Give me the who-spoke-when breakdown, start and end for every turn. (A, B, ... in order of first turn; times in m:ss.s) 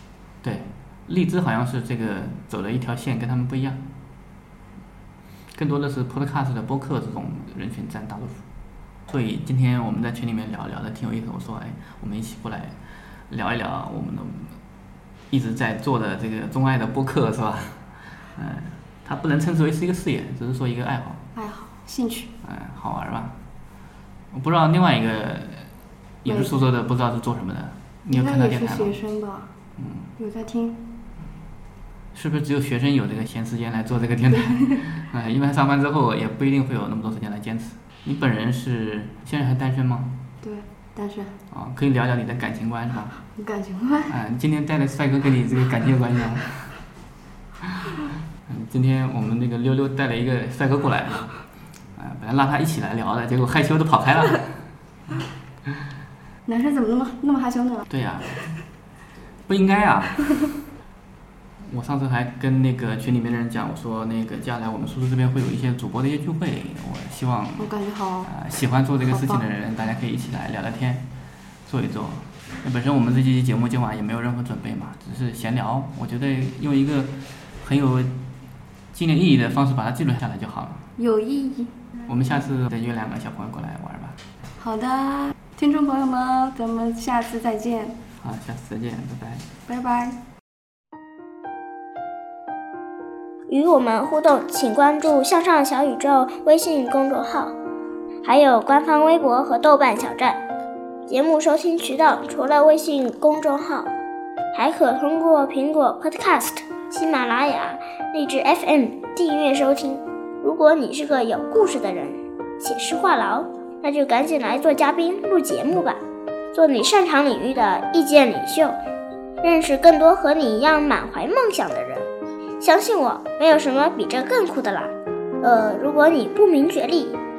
0:00.4-0:03.8 A
0:05.6-0:08.4 A
0:09.1-0:12.7 A
0:13.3-0:14.6 A
0:15.3-0:17.8 A
0:18.4-0:21.2 A
0:21.4-0:22.3 B
0:22.4-0:23.4 A
0:24.3-0:25.7 A
0:26.2-0:29.0 A
0:26.3-0:26.5 B
0:28.1-0:29.5 B
0:29.8-0:30.1 A
0:30.2-0:30.8 B
0:32.1-0:40.2 A
0:40.4-0:41.4 B
0:41.5-0:43.2 A
0:43.3-0:44.2 B
0:44.1-0:46.8 A
0:47.6-0:51.4 A
0:52.0-0:54.6 A
0:56.4-0:57.9 B
0:57.9-0:58.5 A
0:59.5-1:00.4 A
1:01.7-1:11.1 A
1:07.6-1:08.3 B
1:09.1-1:09.4 B
1:11.7-1:18.2 A
1:18.9-1:20.8 A
1:21.0-1:21.9 B
1:22.1-1:24.2 A
1:24.6-1:28.0 B
1:28.2-1:29.5 A
1:29.7-1:30.2 B
1:33.5-1:37.5 C
1:38.2-1:40.4 C
1:41.1-1:43.9 C
1:44.5-1:56.0 C
1:56.5-1:58.8 C
1:59.4-2:02.1 C
2:02.6-2:07.2 C